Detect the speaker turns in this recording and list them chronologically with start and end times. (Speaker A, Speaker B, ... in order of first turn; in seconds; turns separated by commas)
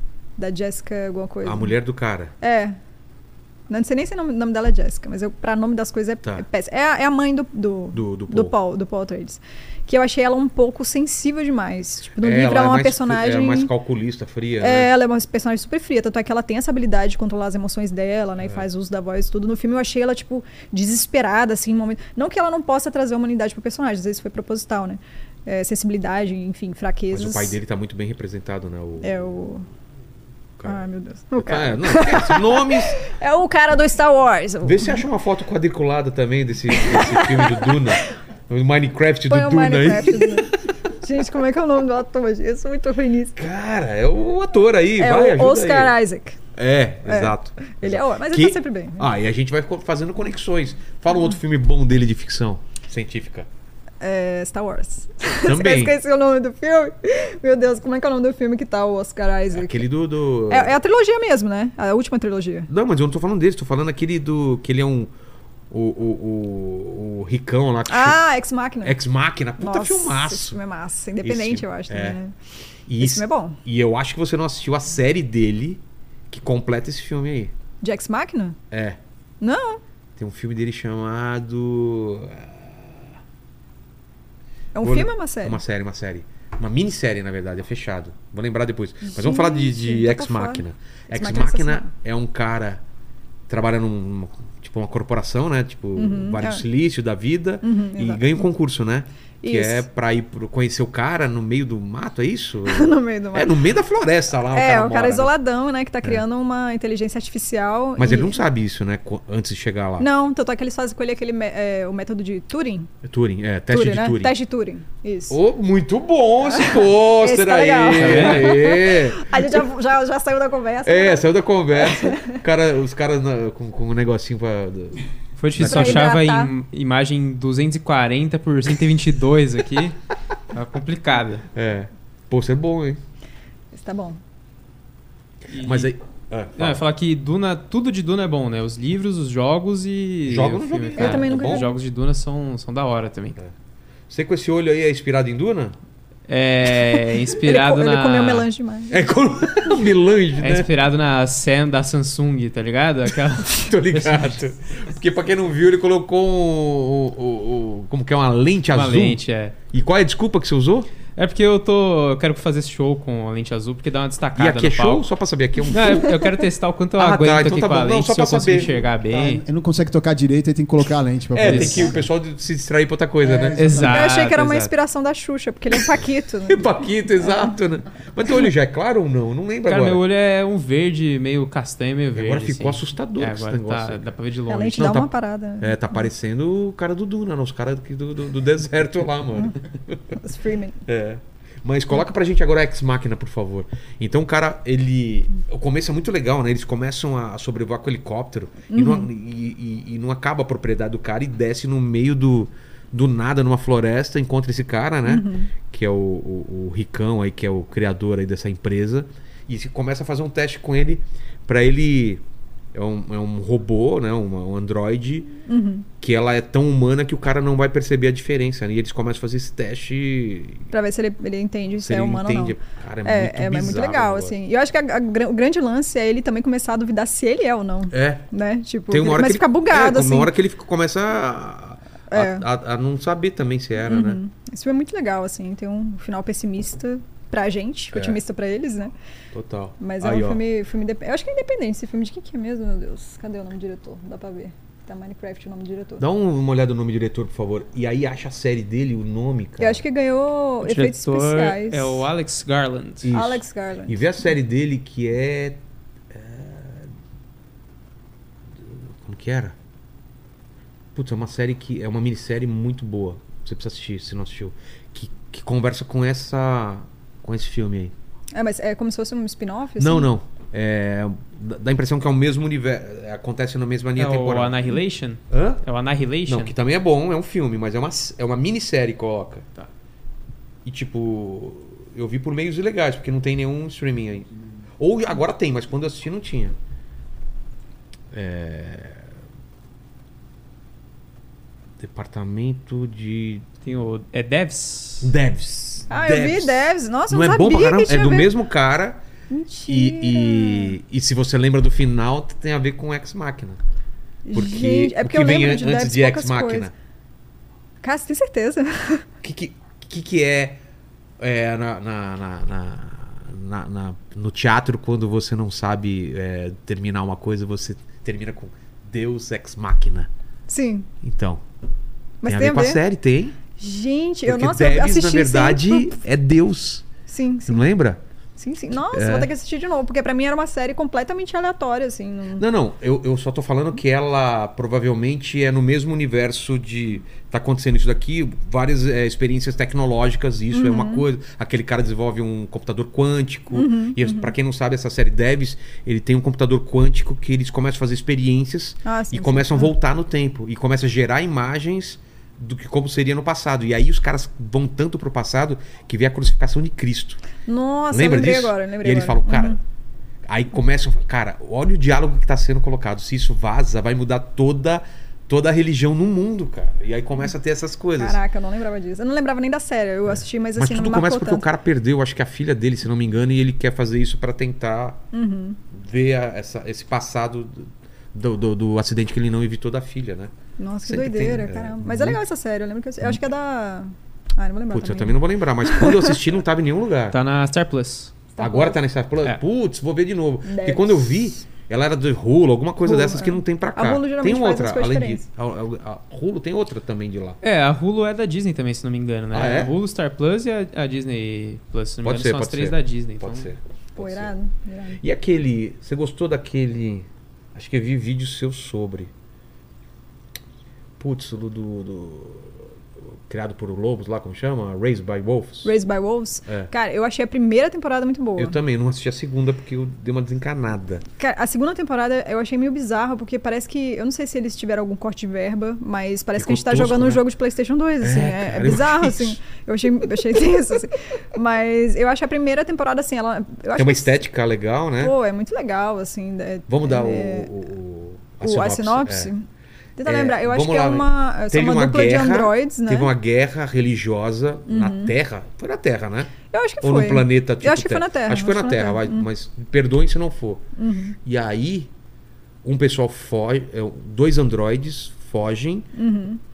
Speaker A: 0.4-1.7, Speaker B: 1.4-2.3, Speaker A: 2.4-2.8, Speaker A: 3.7-13.7, Speaker B: 7.9-8.5, Speaker B: 12.2-14.9, Speaker A: 14.6-27.6, Speaker B: 27.1-29.3, Speaker A: 29.0-29.7, Speaker A: 30.6-35.0, Speaker B: 31.4-33.0, Speaker B: 34.6-40.6, Speaker A: 36.7-38.1, Speaker A: 39.3-43.4, Speaker B: 43.4-45.9, Speaker A: 45.0-46.4, Speaker B: 46.5-53.5, Speaker A: 47.1-49.1, Speaker A: 54.0-59.8, Speaker B: 55.4-55.9, Speaker B: 59.5-60.7, Speaker A: 60.5-62.7, Speaker B: 62.7-65.1, Speaker B: 65.7-68.2, Speaker A: 67.9-69.0, Speaker B: 68.8-70.6, Speaker A: 69.6-72.3, Speaker B: 71.2-72.2, Speaker B: 72.9-77.5, Speaker A: 73.0-73.6, Speaker A: 77.8-78.6, Speaker B: 78.7-79.0, Speaker A: 79.4-79.8, Speaker B: 80.2-83.1, Speaker A: 84.7-85.6, Speaker B: 84.8-92.8, Speaker A: 89.0-91.9, Speaker B: 93.5-105.3, Speaker A: 96.0-96.6, Speaker A: 97.6-98.2, Speaker A: 99.4-99.8, Speaker A: 102.7-103.6, Speaker A: 104.5-108.4, Speaker B: 108.0-110.1, Speaker A: 110.0-112.9, Speaker B: 113.0-114.3, Speaker A: 113.7-115.4, Speaker B: 115.3-119.6, Speaker A: 116.4-122.4, Speaker C: 118.0-118.6, Speaker B: 120.8-125.0, Speaker C: 125.4-130.0, Speaker B: 125.5-126.1, Speaker A: 125.6-126.5, Speaker C: 130.5-131.4, Speaker B: 131.5-133.0, Speaker A: 133.7-134.2, Speaker C: 135.5-135.9, Speaker B: 135.6-136.8, Speaker C: 136.6-143.4, Speaker B: 140.3-141.7, Speaker A: 141.0-141.7, Speaker B: 144.1-145.7, Speaker C: 146.3-148.5, Speaker A: 147.4-149.0, Speaker B: 148.9-150.7, Speaker C: 150.4-154.4, Speaker B: 153.5-159.2, Speaker C: 158.7-159.5, Speaker B: 159.7-160.9, Speaker C: 161.1-165.1, Speaker B: 164.3-166.4, Speaker C: 165.7-169.4, Speaker B: 167.0-168.8, Speaker D: 169.1-172.1, Speaker B: 171.3-173.6, Speaker C: 171.4-171.9, Speaker D: 173.2-174.1, Speaker C: 173.6-174.7, Speaker A: 173.9-176.7, Speaker B: 176.5-180.0, Speaker A: 177.2-177.5, Speaker C: 179.7-184.9, Speaker B: 182.1-184.1, Speaker A: 184.5-185.7, Speaker B: 184.7-190.2, Speaker A: 190.2-190.8, Speaker B: 190.9-212.2, Speaker A: 198.7-199.1, Speaker A: 205.1-205.5, Speaker B: 212.7-215.3, Speaker A: 215.5-215.9, Speaker B: 216.0-220.7, Speaker A: 220.7-230.3, Speaker B: 221.8-224.3, Speaker B: 227.9-228.3, Speaker B: 228.9-234.2, Speaker A: 232.1-232.4, Speaker A: 233.8-238.9, Speaker B: 239.3-240.4, Speaker A: 239.8-246.0, Speaker B: 246.0-249.8, Speaker A: 249.6-252.1, Speaker C: 250.6-253.1, Speaker B: 253.0-255.6, Speaker A: 253.1-254.0, Speaker B: 256.1-256.9, Speaker B: 258.6-259.5, Speaker B: 260.9-267.9, Speaker A: 268.3-270.1, Speaker B: 269.8-274.8, Speaker C: 274.0-276.5, Speaker B: 275.3-275.6, Speaker B: 276.2-279.4, Speaker B: 280.6-284.3, Speaker B: 284.8-286.5, Speaker B: 288.1-289.1, Speaker B: 291.8-293.4, Speaker C: 293.6-295.1, Speaker B: 295.0-299.0, Speaker A: 295.9-298.3, Speaker A: 299.3-300.8, Speaker B: 299.7-303.6, Speaker A: 304.2-306.7, Speaker B: 304.3-306.7, Speaker A: 307.8-309.0, Speaker B: 309.2-310.6, Speaker B: 311.2-320.1, Speaker A: 320.5-320.9, Speaker B: 321.0-321.4, Speaker A: 322.2-322.8, Speaker B: 322.2-323.4, Speaker A: 323.6-325.9, Speaker B: 324.2-326.9, Speaker A: 327.1-327.6, Speaker B: 327.5-328.0, Speaker A: 328.4-332.4, Speaker B: 328.7-329.3, Speaker B: 332.4-357.2, Speaker A: 340.5-341.1, Speaker A: 343.5-344.3, Speaker A: 348.8-349.7, Speaker A: 357.4-359.6, Speaker B: 357.9-359.6, Speaker B: 360.3-368.2, Speaker A: 368.0-371.4, Speaker B: 370.6-375.0, Speaker A: 375.1-375.6, Speaker B: 375.7-380.3, Speaker A: 380.6-386.1, Speaker B: 380.9-382.2, Speaker B: 384.7-387.2, Speaker C: 387.1-388.2, Speaker A: 388.4-388.8, Speaker B: 388.4-397.4, Speaker A: 390.4-391.3, Speaker A: 392.8-395.2, Speaker C: 397.4-403.5, Speaker B: 399.3-399.7, Speaker B: 402.0-404.3, Speaker A: 404.0-405.0, Speaker B: 405.0-409.1, Speaker B: 411.0-412.6, Speaker B: 413.3-415.7, Speaker A: 415.6-418.6, Speaker B: 418.4-421.0, Speaker A: 421.2-434.1, Speaker B: 426.4-427.2, Speaker B: 428.0-429.4, Speaker B: 433.8-435.1, Speaker A: 435.0-437.5, Speaker B: 436.7-439.3, Speaker A: 438.4-439.4, Speaker A: 440.0-443.1, Speaker B: 440.0-450.6, Speaker A: 444.7-445.1, Speaker A: 446.5-449.3, Speaker A: 450.8-451.1, Speaker B: 451.2-451.9, Speaker B: 452.6-455.9, Speaker A: 455.9-456.4